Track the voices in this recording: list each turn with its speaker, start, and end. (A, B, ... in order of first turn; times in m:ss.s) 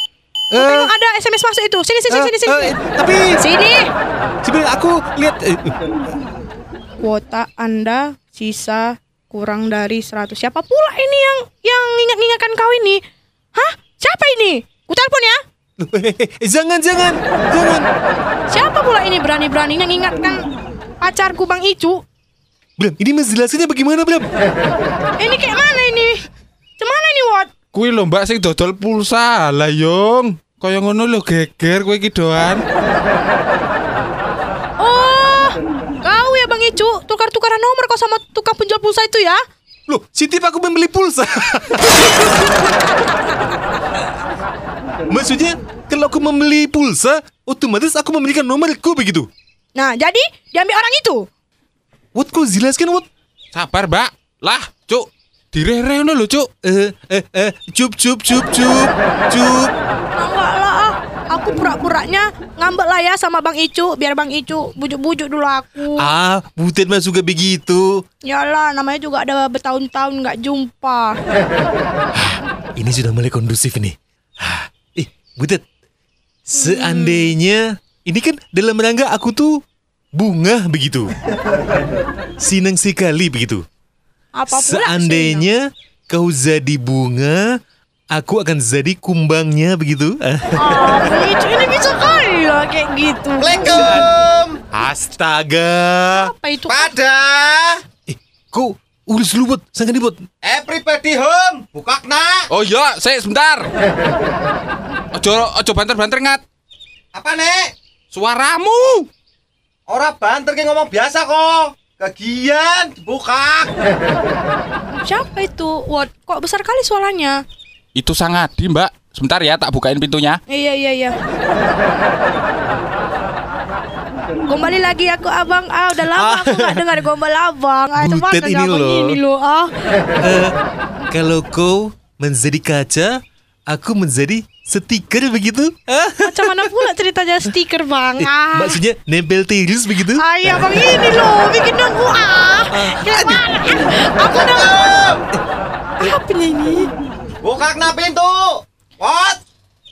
0:00.5-0:00.9 A
0:00.5-0:02.7 B
0:02.1-0:03.4 A
0:03.4-0:03.9 B
0:04.4-0:05.8 A
0:07.0-0:13.0 B
0:13.6-0:15.4 B
0:15.8-0:17.9 A
0:18.5-0:20.4 B
0:21.0-0:22.0 B
0:22.8-0:24.3 A
0:25.2-0:26.2 B
0:26.8-0:27.5 B
0:27.7-0:32.6 C
0:34.8-0:39.4 B
0:39.9-0:42.6 A
0:42.2-0:43.2 B
0:45.1-0:49.3 A
0:49.8-0:51.3 B
0:52.2-0:53.1 A
0:53.5-0:56.5 C
0:56.6-0:59.7 A
1:00.2-1:06.0 B
1:06.0-1:08.0 A
1:08.2-1:11.2 B
1:12.1-1:15.6 A
1:16.5-1:19.6 A
1:16.6-1:17.3 B
1:20.2-1:21.1 A
1:22.4-1:23.6 A
1:24.4-1:25.5 B
1:24.5-1:27.6 A
1:28.1-1:31.2 A
1:30.6-1:33.8 B
1:33.4-1:34.6 D
1:33.7-1:34.1 A
1:34.7-1:36.3 A
1:36.1-1:36.9 B
1:36.7-1:37.8 D
1:38.1-1:40.2 A
1:40.4-1:42.5 D
1:42.5-1:43.7 C
1:45.2-1:46.4 C
1:47.1-1:47.7 D
1:48.1-1:49.1 C
1:49.9-1:53.7 D
1:55.0-1:57.4 B
1:58.0-2:00.4 C
2:00.5-2:01.2 B
2:04.5-2:09.7 B
2:06.2-2:06.8 A
2:08.0-2:09.2 A
2:10.2-2:10.6 A
2:11.1-2:16.7 A
2:16.2-2:18.8 B
2:18.2-2:20.7 A
2:20.2-2:24.9 B
2:22.7-2:23.5 A
2:24.3-2:25.3 D
2:26.0-2:26.9 B
2:27.4-2:29.4 D